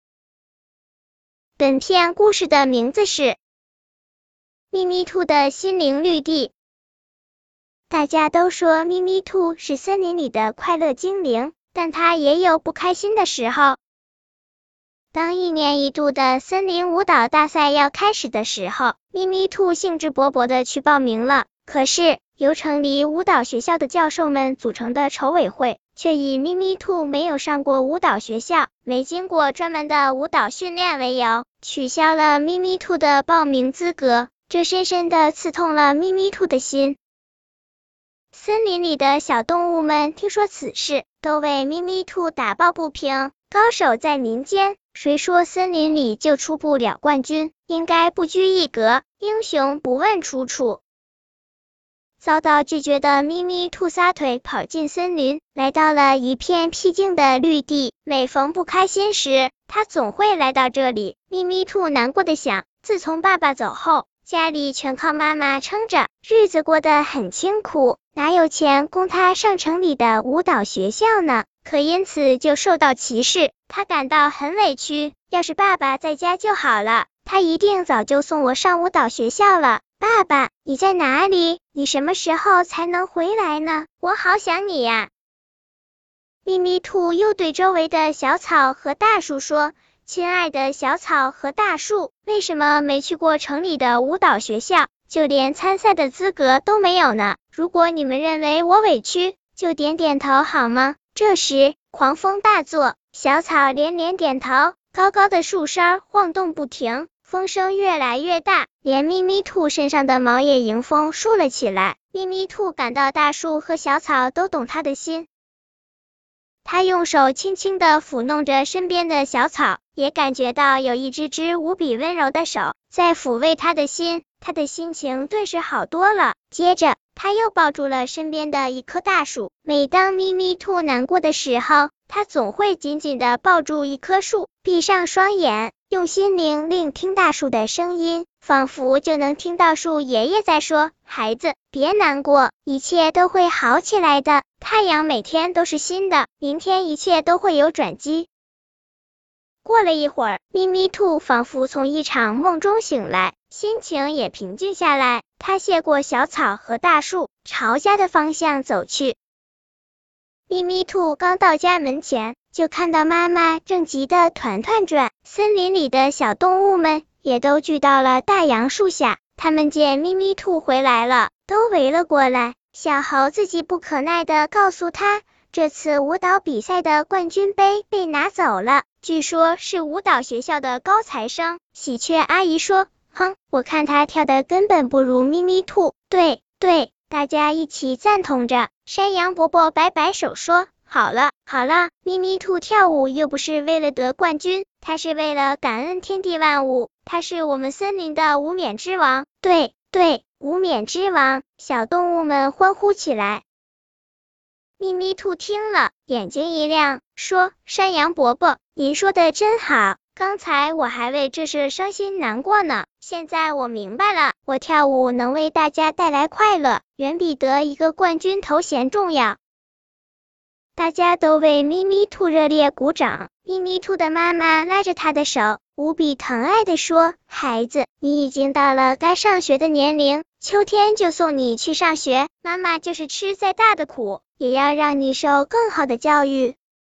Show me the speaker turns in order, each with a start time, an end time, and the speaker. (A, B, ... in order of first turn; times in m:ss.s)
0:01.6-0:03.4 A
0:04.7-0:06.5 A
0:07.9-0:13.8 A
0:15.1-0:37.0 A
0:38.3-0:50.8 A
0:52.2-1:25.1 A
1:26.4-1:55.3 A
1:56.6-2:28.3 A
2:29.6-2:39.2 A
2:40.5-3:23.4 A
3:24.8-3:39.4 A
3:40.8-3:56.6 A